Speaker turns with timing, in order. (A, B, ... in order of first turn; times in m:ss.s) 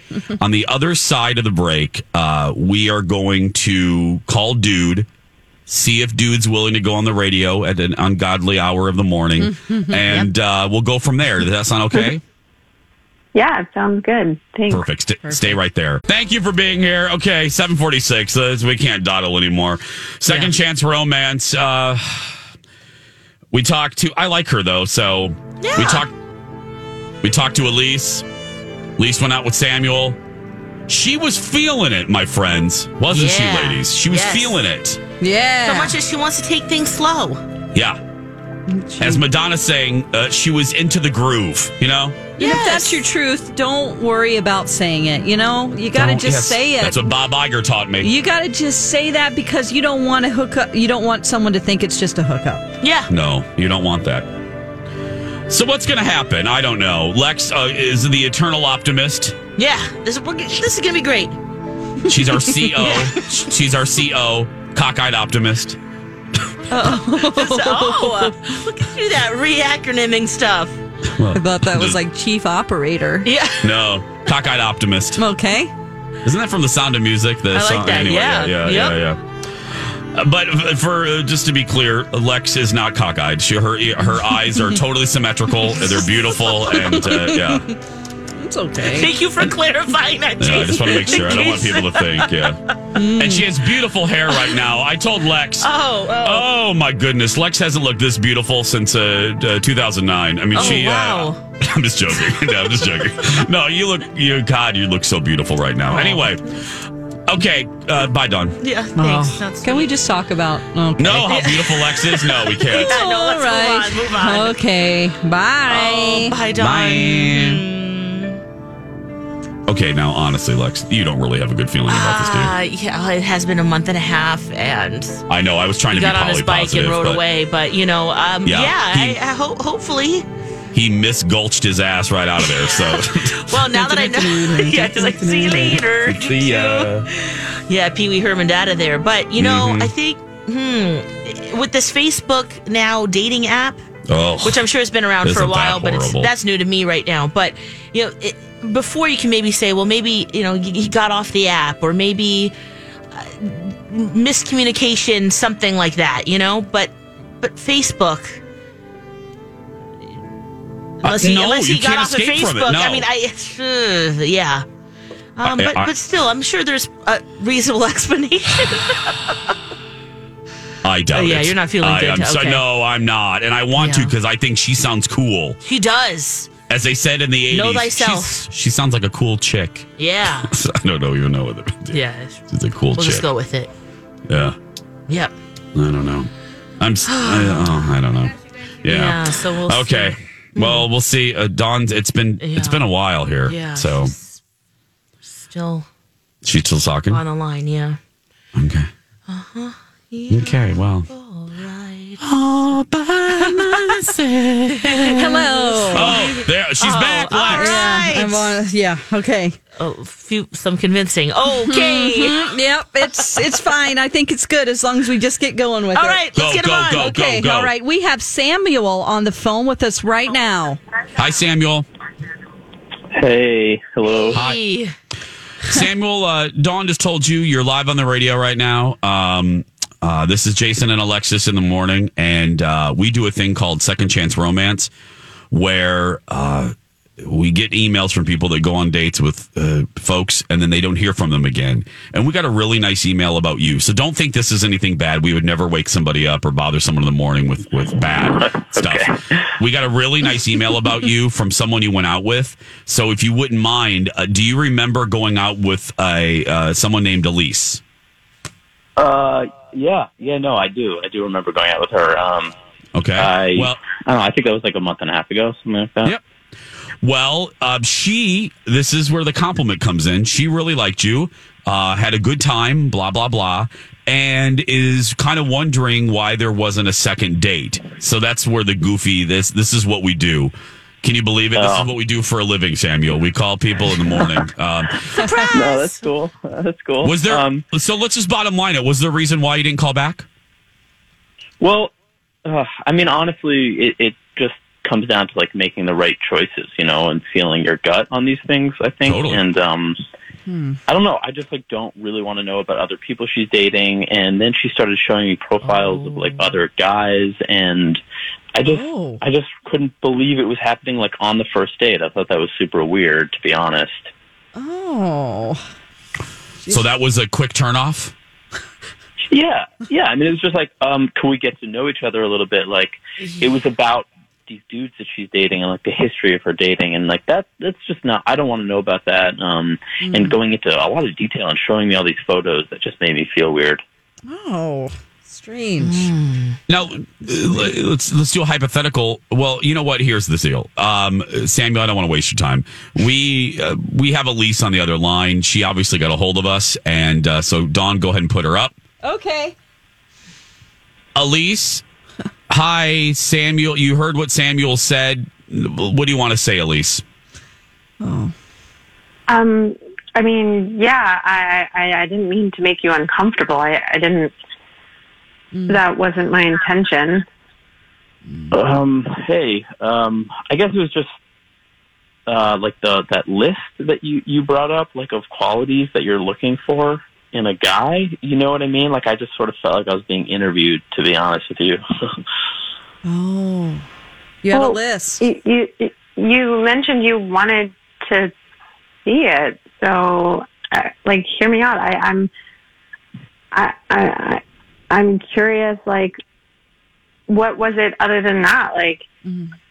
0:00.4-0:05.1 A
0:05.7-0:12.2 A
0:09.4-0:10.0 B
0:13.3-0:14.8 C
0:14.7-0:22.4 A
0:15.2-0:15.6 B
0:23.5-0:26.1 A
0:25.6-0:26.1 D
0:27.2-0:28.3 A
0:29.0-0:30.2 A
0:30.9-0:35.0 A
0:33.1-0:34.7 D
0:35.2-0:36.0 B
0:35.6-0:37.4 D
0:37.7-0:38.0 A
0:38.7-0:39.2 B
0:39.0-0:42.3 A
0:42.4-0:47.0 B
0:42.4-0:43.0 D
0:46.0-0:48.1 A
0:48.0-0:52.7 B
0:52.8-0:53.1 D
0:53.1-0:54.3 A
0:55.5-0:59.4 A
0:59.6-1:01.4 D
1:02.0-1:05.8 A
1:02.8-1:03.1 D
1:06.7-1:10.8 D
1:06.7-1:08.3 B
1:11.1-1:12.0 A
1:11.3-1:13.3 B
1:13.2-1:13.9 D
1:13.6-1:15.2 A
1:15.2-1:15.7 B
1:16.2-1:19.2 A
1:17.5-1:19.0 D
1:20.0-1:27.7 A
1:24.3-1:24.8 B
1:26.5-1:27.7 B
1:28.4-1:29.1 B
1:28.8-1:32.5 D
1:30.4-1:32.6 A
1:30.7-1:31.6 B
1:32.9-1:33.4 B
1:33.1-1:48.6 A
1:34.3-1:34.6 D
1:35.6-1:36.5 D
1:40.5-1:41.4 D
1:42.3-1:42.7 D
1:45.8-1:46.3 D
1:48.6-1:49.9 D
1:49.0-1:51.2 B
1:51.0-1:52.9 A
1:51.1-1:54.6 D
1:52.7-1:56.4 B
1:55.7-1:58.4 D
1:56.6-1:57.6 A
1:59.7-2:02.5 A
2:01.9-2:05.2 D
2:05.3-2:07.2 A
2:05.9-2:10.3 D
2:08.4-2:09.2 A
2:10.7-2:13.6 A
2:12.4-2:23.8 D
2:13.8-2:15.7 B
2:14.2-2:17.1 A
2:19.4-2:19.9 A
2:24.1-2:24.6 A
2:24.4-2:32.5 D
2:25.2-2:26.3 A
2:33.1-2:38.4 D
2:41.0-2:44.6 D
2:41.0-2:43.1 A
2:45.4-2:49.3 D
2:45.4-2:45.9 A
2:50.8-2:55.6 A
2:51.1-2:52.6 D
2:53.8-2:54.1 D
2:55.6-2:56.5 D
2:56.7-3:03.3 A
2:57.5-2:58.5 D
3:00.0-3:00.5 D
3:01.9-3:02.4 D
3:03.0-3:03.7 D
3:04.3-3:04.6 A
3:05.1-3:05.3 D
3:05.8-3:14.1 A
3:07.1-3:07.7 D
3:08.9-3:10.9 D
3:12.4-3:12.9 D
3:13.4-3:14.4 D
3:15.2-3:15.9 D
3:16.4-3:17.2 A
3:17.1-3:18.0 D
3:18.6-3:18.9 A
3:19.3-3:22.2 D
3:20.3-3:21.1 A
3:22.2-3:25.4 A
3:23.3-3:28.6 D
3:25.1-3:26.1 B
3:25.9-3:27.9 A
3:27.5-3:29.6 B
3:29.8-3:32.4 D
3:31.5-3:36.3 B
3:35.9-3:37.1 D
3:36.3-3:37.7 A
3:36.9-3:40.8 B
3:41.1-3:41.9 A
3:43.1-3:44.4 E
3:44.2-3:44.9 D
3:44.3-3:44.6 A
3:45.7-3:54.9 A
3:55.5-4:17.8 A
4:08.3-4:09.2 E
4:19.0-4:22.5 E
4:23.0-4:23.8 A
4:23.2-4:26.2 E
4:27.0-4:45.1 A
4:41.6-4:41.9 E
4:45.2-4:46.1 D
4:45.4-4:47.6 E
4:47.0-4:50.3 A
4:51.6-4:51.9 E
4:52.5-5:00.0 E
4:59.0-4:59.4 A
5:00.5-5:00.8 B
5:00.9-5:08.0 E
5:05.6-5:06.6 D
5:08.6-5:14.1 E
5:08.7-5:09.2 B
5:14.6-5:15.6 B
5:16.7-5:18.1 A
5:19.3-5:33.8 E
5:23.2-5:23.6 D
5:30.0-5:30.4 B
5:34.3-5:36.1 B
5:35.8-5:36.6 D
5:36.7-5:48.7 A
5:49.0-5:49.6 B
5:51.2-5:51.8 A
5:52.5-5:57.0 A
5:58.0-5:58.3 B
5:59.3-6:04.3 C
6:05.5-6:05.8 B
6:05.7-6:07.2 C
6:08.3-6:08.6 B
6:08.5-6:11.1 E
6:12.3-6:21.8 E
6:23.0-6:23.8 B
6:24.4-6:25.2 B
6:24.5-6:28.3 C
6:29.1-6:32.3 C
6:33.5-6:36.2 C
6:37.3-6:39.1 C
6:39.2-6:39.6 B